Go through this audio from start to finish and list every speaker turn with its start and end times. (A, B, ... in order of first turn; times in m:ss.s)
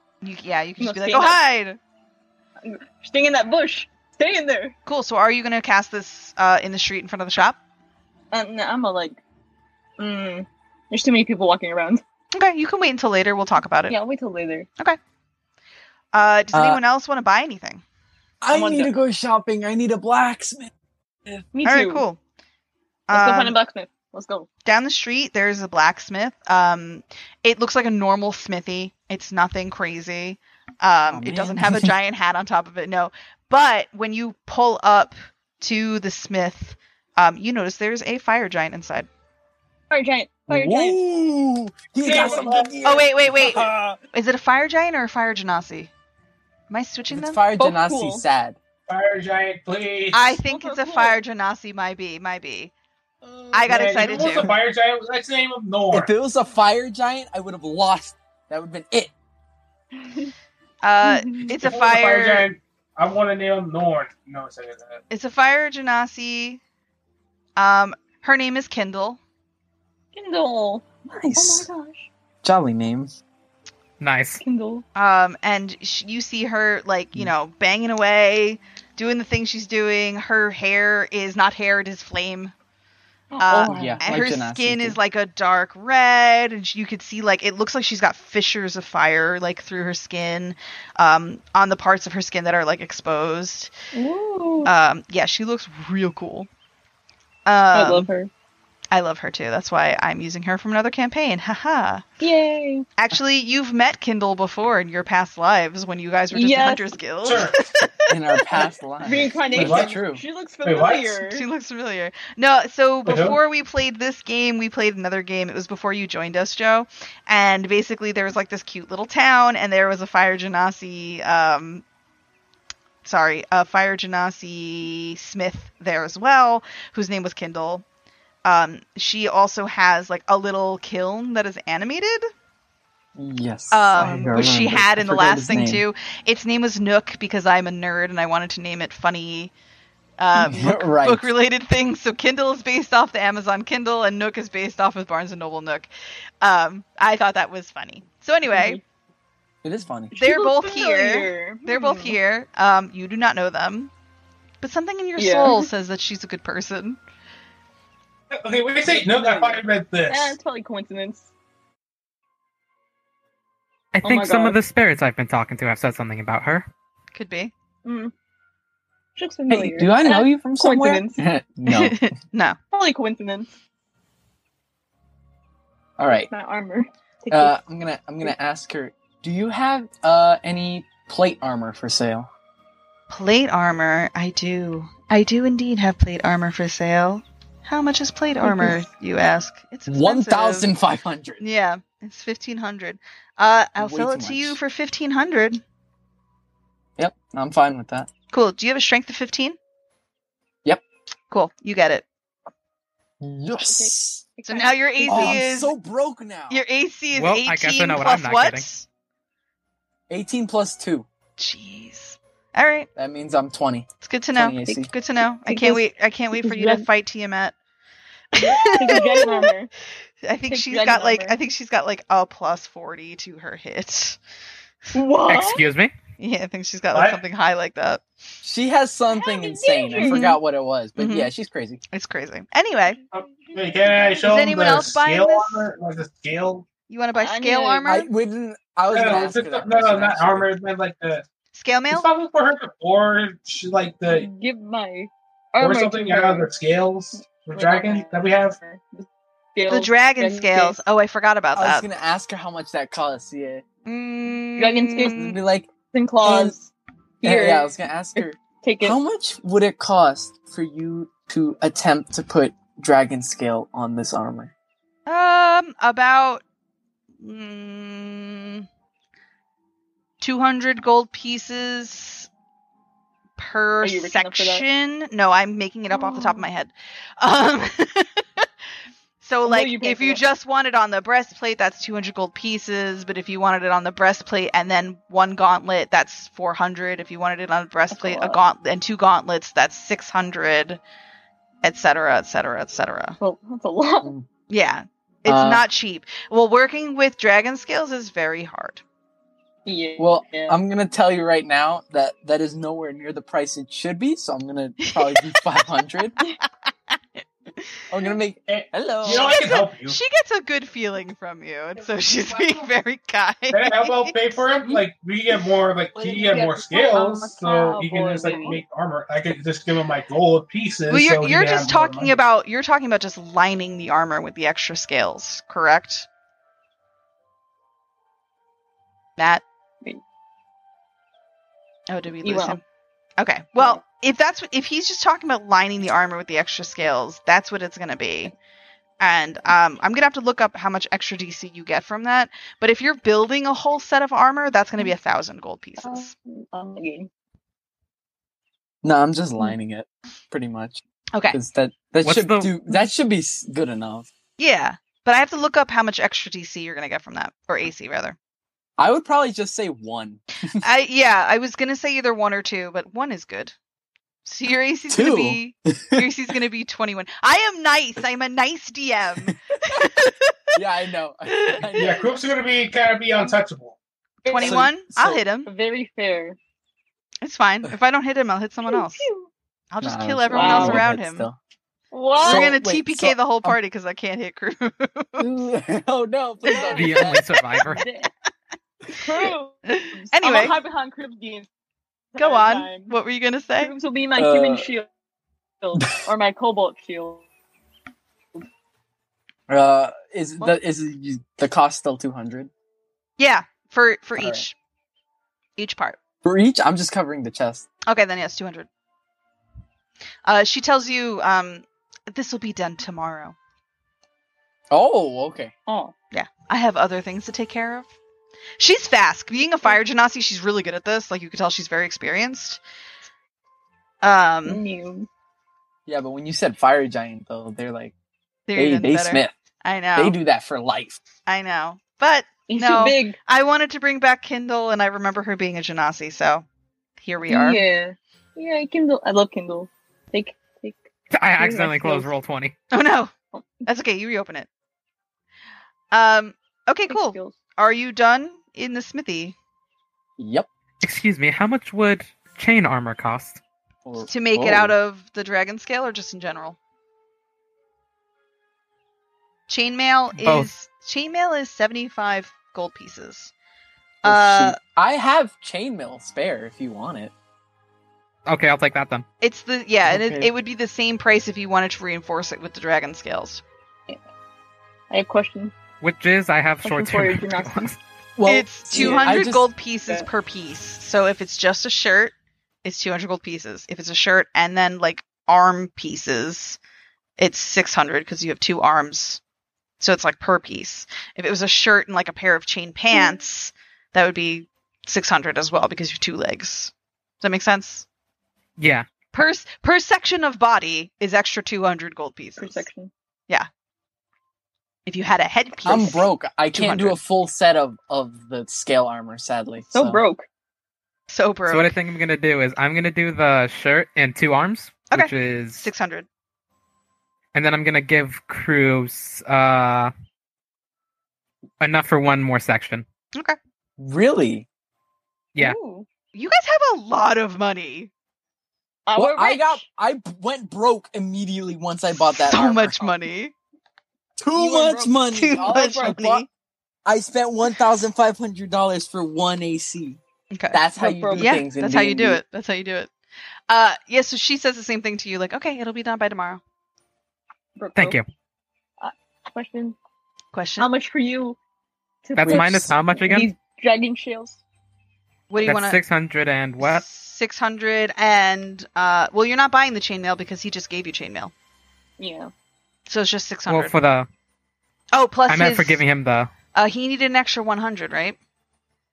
0:00.2-0:01.8 A
0:00.8-0:01.4 B
0:02.6-0:04.7 B
0:04.9-0:07.6 A
0:08.3-0:09.2 B
0:10.0-0:12.0 B
0:12.3-0:14.0 A
0:13.9-0:14.7 B
0:16.1-0:17.8 A
0:16.5-0:16.8 C
0:18.4-0:20.7 C
0:18.5-0:18.9 B
0:21.5-0:22.0 B
0:21.6-0:22.2 A
0:23.1-0:23.6 A
0:23.1-0:24.5 B
0:24.6-0:39.1 A
0:31.1-0:31.9 C
0:39.9-0:41.0 B
0:40.5-0:43.8 C
0:42.0-0:42.8 D
0:42.1-0:42.5 B
0:42.8-0:45.9 A
0:43.5-0:43.9 D
0:46.7-0:47.4 A
0:47.1-0:48.6 C
0:47.6-0:48.2 B
0:48.9-0:50.4 D
0:50.1-0:52.7 A
0:50.5-0:51.2 B
0:53.2-0:53.5 B
0:53.5-0:54.5 A
0:53.7-0:56.1 D
0:54.0-0:54.6 C
0:55.9-0:59.1 C
1:00.0-1:00.3 B
1:00.8-1:02.5 A
1:01.0-1:01.5 B
1:01.6-1:05.0 D
1:05.1-1:06.6 A
1:07.6-1:09.2 A
1:10.1-1:12.1 B
1:11.1-1:11.7 C
1:12.4-1:13.2 C
1:14.0-1:14.4 E
1:14.4-1:14.8 B
1:15.0-1:22.5 A
1:23.3-1:24.0 B
1:23.4-1:33.7 A
1:23.6-1:25.0 C
1:33.9-1:34.7 B
1:34.6-1:36.5 A
1:37.5-1:38.1 A
1:37.7-1:38.3 B
1:38.9-1:42.0 A
1:42.2-1:42.9 B
1:43.0-1:47.8 A
1:46.3-1:47.5 B
1:47.2-1:47.6 D
1:48.1-1:50.2 C
1:48.6-1:51.4 B
1:49.5-1:50.0 D
1:50.6-1:51.2 D
1:51.3-2:01.8 A
1:53.1-1:53.4 D
2:03.0-2:07.8 A
2:08.4-2:12.2 A
2:13.2-2:15.8 C
2:13.7-2:19.5 A
2:14.0-2:14.3 B
2:20.2-2:25.9 A
2:20.4-2:21.3 C
2:26.4-2:28.8 A
2:28.5-2:28.8 B
2:29.6-2:30.1 C
2:30.1-2:33.9 A
2:30.2-2:32.2 B
2:34.6-2:37.0 A
2:35.2-2:35.7 B
2:38.3-2:40.4 D
2:38.8-2:41.3 B
2:43.9-2:46.7 E
2:44.0-2:44.6 B
2:47.2-2:47.5 A
2:47.8-2:48.1 B
2:49.2-2:51.2 B
2:49.5-2:52.1 C
2:51.7-2:52.6 A
2:52.7-2:53.5 B
2:56.0-2:56.3 C
2:56.3-2:57.6 B
2:57.3-3:02.3 C
3:03.1-3:10.7 A
3:08.4-3:08.8 B
3:09.9-3:11.4 C
3:11.4-3:15.6 A
3:13.8-3:14.6 C
3:17.0-3:18.1 C
3:18.3-3:19.6 A
3:21.3-3:22.0 A
3:23.2-3:24.2 C
3:23.5-3:25.5 B
3:24.5-3:25.7 A
3:25.1-3:26.6 C
3:26.5-3:28.9 A
3:27.1-3:28.7 E
3:30.1-3:31.1 C
3:31.4-3:32.9 A
3:33.0-3:34.9 C
3:34.0-3:37.6 A
3:35.5-3:36.9 B
3:38.3-3:39.5 A
3:38.4-3:39.7 B
3:40.2-3:44.2 A
3:40.5-3:41.4 B
3:44.9-3:45.6 B
3:45.3-3:45.9 E
3:46.2-3:48.0 A
3:46.9-3:47.2 D
3:48.4-3:51.8 C
3:49.1-3:50.2 B
3:50.0-3:50.4 A
3:51.0-3:51.3 A
3:51.9-3:53.0 A
3:53.0-3:54.6 B
3:53.1-3:56.7 D
3:54.2-3:55.7 A
3:56.9-3:58.1 A
3:57.2-3:57.9 B
3:57.9-4:00.5 C
3:58.9-4:01.2 D
4:01.5-4:02.1 A
4:01.9-4:04.3 D
4:04.1-4:06.5 B
4:05.6-4:08.6 D
4:07.2-4:10.8 B
4:09.7-4:11.9 A
4:11.6-4:13.6 C
4:13.9-4:15.4 A
4:14.6-4:15.2 B
4:15.1-4:15.7 C
4:15.9-4:16.7 B
4:16.2-4:16.6 C
4:17.2-4:19.0 B
4:17.2-4:24.5 C
4:25.1-4:26.4 A
4:27.2-4:28.6 A
4:30.2-4:32.3 A
4:33.4-4:38.5 A
4:33.8-4:34.7 B
4:35.9-4:36.5 B
4:39.2-4:50.8 A
4:39.4-4:40.2 B
4:47.9-4:48.4 B
4:51.6-4:53.2 A
4:53.2-4:54.1 B
4:54.0-4:54.3 C
4:54.5-4:58.8 A
4:55.3-4:55.6 C
4:59.7-5:00.6 B
5:00.0-5:06.2 C
5:04.8-5:05.4 A
5:07.9-5:09.4 C
5:08.5-5:10.0 D
5:09.1-5:14.4 A
5:13.5-5:22.2 D
5:16.0-5:18.6 B
5:20.9-5:26.1 A
5:29.2-5:29.4 A
5:31.9-5:32.6 A
5:32.2-5:32.6 B
5:33.2-5:38.3 A
5:39.0-5:46.1 A
5:45.8-5:47.1 B
5:48.8-5:54.1 C
5:52.0-5:52.5 E
5:54.4-5:58.2 A
5:58.8-6:00.6 C
6:00.6-6:03.6 A
6:04.2-6:10.3 A
6:04.9-6:06.0 C
6:10.5-6:12.0 C
6:11.3-6:11.8 A
6:11.8-6:13.8 D
6:14.2-6:15.5 A
6:14.2-6:14.7 B
6:14.4-6:15.2 C
6:15.4-6:16.4 B
6:17.2-6:19.1 A
6:18.7-6:19.3 B
6:19.7-6:21.3 A
6:19.8-6:21.4 C
6:20.3-6:20.8 B
6:21.9-6:22.6 B
6:22.2-6:23.6 C
6:22.2-6:25.3 A
6:25.2-6:27.2 C
6:26.6-6:27.1 B
6:26.7-6:27.8 E
6:27.6-6:28.1 B
6:28.9-6:31.5 B
6:29.7-6:30.6 A
6:32.1-6:33.0 B
6:32.2-6:33.7 A
6:33.6-6:34.9 B
6:34.2-6:34.7 C
6:35.6-6:37.2 B
6:39.5-6:42.5 C
6:43.2-6:44.6 A
6:44.2-6:44.4 C
6:45.6-6:46.0 A
6:46.2-6:47.7 C
6:47.9-6:48.7 A
6:50.2-6:53.4 A
6:54.7-6:55.5 C
6:55.7-6:55.9 B
6:56.1-6:57.9 A
6:58.6-7:02.6 A
7:04.0-7:04.6 A
7:04.4-7:05.1 B
7:05.9-7:07.9 C
7:08.5-7:10.2 A
7:08.6-7:09.3 C
7:10.0-7:11.0 C
7:11.3-7:16.5 A
7:12.5-7:13.2 B
7:17.0-7:17.6 A
7:17.3-7:20.8 B
7:21.1-7:22.6 E
7:21.4-7:22.1 B
7:22.7-7:23.1 A
7:23.3-7:23.6 B
7:23.6-7:24.5 A
7:25.9-7:29.4 A
7:26.9-7:27.4 B
7:30.2-7:30.5 C
7:30.8-7:33.4 E
7:33.8-7:34.8 C
7:34.1-7:36.6 A
7:39.5-7:43.3 A
7:40.2-7:40.5 E
7:44.0-7:44.6 A
7:44.0-7:47.1 C
7:48.3-7:49.0 E
7:49.2-7:53.4 A
7:49.8-7:50.3 C
7:54.9-7:55.6 B
7:55.8-7:57.8 E
7:56.6-7:57.7 B
7:58.2-7:59.5 C
7:58.2-8:06.6 A
7:58.7-7:59.2 B
8:07.2-8:09.2 A
8:09.8-8:17.9 A
8:12.9-8:13.2 B
8:18.6-8:18.9 E
8:19.1-8:22.7 A
8:22.4-8:22.9 B
8:24.9-8:27.0 A
8:25.7-8:30.0 C
8:29.7-8:30.3 B
8:31.1-8:31.8 A
8:31.5-8:35.7 E
8:34.9-8:36.1 A
8:37.3-8:39.9 E
8:41.6-8:42.8 E
8:43.8-8:44.5 C
8:45.4-8:45.9 B
8:46.1-8:47.9 A
8:48.9-8:49.6 B
8:49.0-8:52.9 C
8:51.9-8:53.3 A
8:54.2-8:56.3 C
8:54.3-8:55.9 B
8:55.1-8:56.3 A
8:56.8-9:00.0 C
9:00.3-9:00.6 A
9:00.5-9:02.2 C
9:00.8-9:01.4 B
9:01.2-9:02.9 A
9:03.5-9:06.4 A
9:07.6-9:08.0 B
9:07.8-9:08.1 E
9:08.8-9:09.8 B
9:10.3-9:10.7 A
9:10.6-9:11.4 B
9:12.0-9:14.4 B
9:12.2-9:13.3 E
9:12.2-9:12.8 C
9:15.3-9:15.8 A
9:15.4-9:16.8 E
9:16.6-9:21.3 A
9:22.0-9:22.3 B
9:22.9-9:23.8 A
9:23.5-9:24.1 E
9:24.9-9:25.8 A
9:25.3-9:26.3 E
9:26.5-9:28.2 A